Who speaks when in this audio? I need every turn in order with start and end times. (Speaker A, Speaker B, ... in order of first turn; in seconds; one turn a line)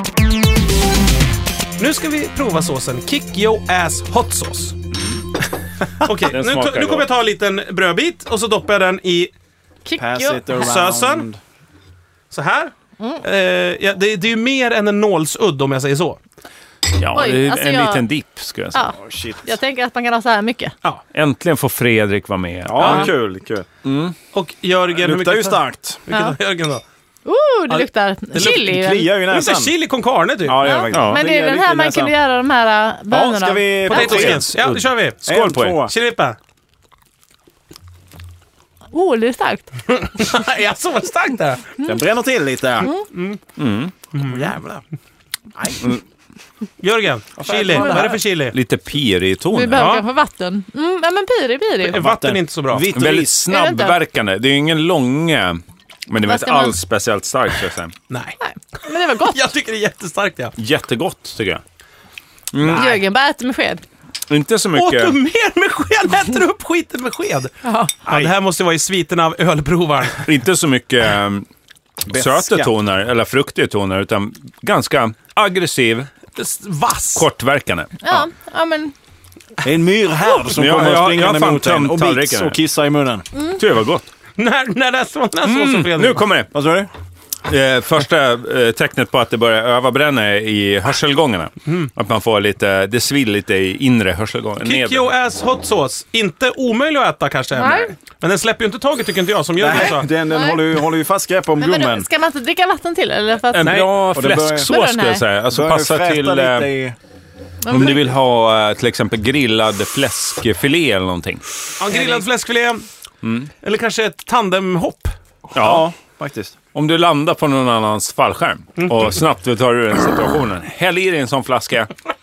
Speaker A: 1.8-4.8
Speaker A: 6.0-9.3
Speaker B: 6.2-7.1
Speaker C: 9.8-10.8
Speaker D: 10.0-11.4
Speaker A: 10.6-11.3
Speaker A: 12.3-16.2
Speaker B: 16.9-18.9
Speaker C: 17.1-18.1
Speaker C: 18.7-20.7
Speaker D: 19.0-19.5
Speaker B: 21.1-23.1
Speaker D: 22.7-23.7
Speaker A: 22.8-23.1
Speaker B: 23.8-24.1
Speaker A: 24.3-26.8
Speaker D: 24.9-26.0
Speaker C: 26.1-26.4
Speaker C: 27.3-29.1
Speaker A: 27.7-28.7
Speaker D: 28.4-29.7
Speaker A: 29.3-30.8
Speaker D: 30.4-32.1
Speaker C: 30.6-34.4
Speaker B: 30.9-31.2
Speaker D: 33.1-34.5
Speaker A: 33.9-36.4
Speaker B: 33.9-35.8
Speaker D: 35.3-35.9
Speaker C: 38.9-39.7
Speaker A: 39.9-41.8
Speaker D: 41.8-42.9
Speaker C: 42.8-43.1
Speaker A: 43.1-43.4
Speaker B: 43.6-43.9
Speaker A: 44.1-44.5
Speaker D: 44.2-44.8
Speaker D: 45.5-45.9
Speaker A: 46.8-48.6
Speaker D: 47.4-48.2
Speaker B: 47.9-50.0
Speaker C: 49.5-52.0
Speaker A: 49.8-50.0
Speaker A: 51.8-52.9
Speaker D: 51.9-53.4
Speaker B: 52.9-58.0
Speaker C: 53.5-54.0
Speaker C: 56.2-56.8
Speaker A: 58.1-58.4
Speaker C: 58.4-59.4
Speaker A: 59.2-60.6
Speaker B: 60.6-61.6
Speaker B: 62.5-63.0
Speaker C: 62.7-63.9
Speaker B: 64.3-65.2
Speaker A: 64.7-67.5
Speaker C: 67.6-67.9
Speaker A: 68.1-70.2
Speaker D: 68.1-68.3
Speaker B: 70.2-71.5
Speaker B: 72.1-76.1
Speaker D: 72.1-72.7
Speaker A: 76.4-77.2
Speaker B: 77.2-78.3
Speaker C: 78.0-78.9
Speaker D: 79.6-83.3
Speaker B: 80.5-82.6
Speaker B: 83.5-84.0
Speaker A: 84.4-86.2
Speaker B: 85.4-86.5
Speaker D: 86.5-86.9
Speaker B: 87.5-95.1
Speaker A: 94.6-100.1
Speaker C: 97.6-97.9
Speaker D: 99.6-102.1
Speaker C: 99.7-100.6
Speaker C: 101.6-103.9
Speaker B: 103.5-106.7
Speaker D: 103.7-104.7
Speaker C: 104.7-105.2
Speaker D: 105.5-107.0
Speaker C: 107.6-108.1
Speaker B: 107.7-111.4
Speaker A: 111.8-112.8
Speaker B: 113.2-113.5
Speaker A: 113.6-115.2
Speaker B: 115.5-115.9
Speaker D: 115.5-116.6
Speaker B: 116.7-121.9